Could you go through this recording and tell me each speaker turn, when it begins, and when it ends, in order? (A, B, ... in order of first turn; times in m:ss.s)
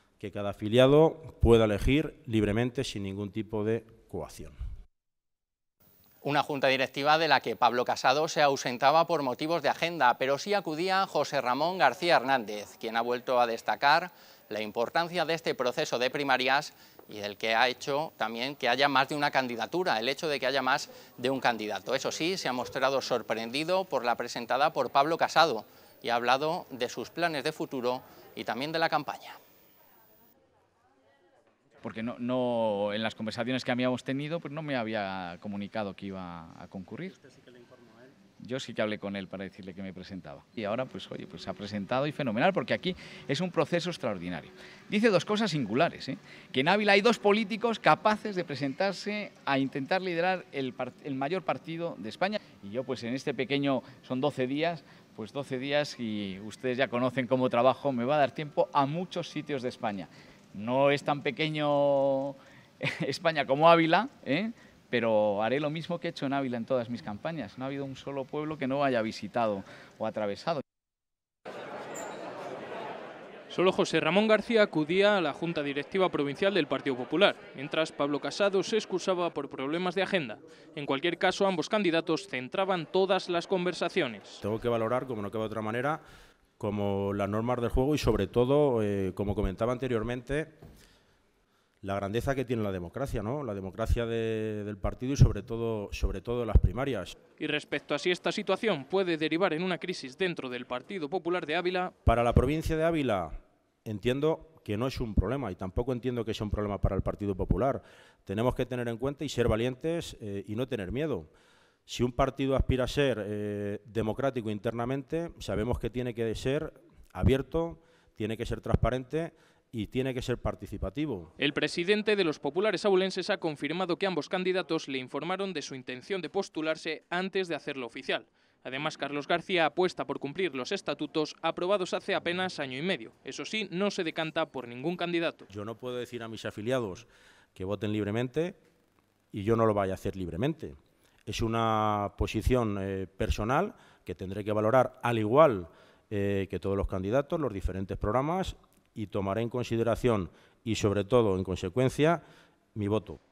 0:00.2-0:04.6 A
0:06.2-0:29.4 B
0:31.8-0:37.2 C
0:38.4-1:10.6 C
1:13.5-1:24.4 D
1:24.4-1:26.0 A
1:26.6-1:30.5 A
1:31.8-1:37.1 A
1:37.4-1:41.9 D
1:42.0-1:51.3 A
1:51.9-2:01.3 A
2:01.4-2:15.4 D
2:15.5-2:18.6 A
2:19.3-2:32.2 A
2:32.7-2:33.2 A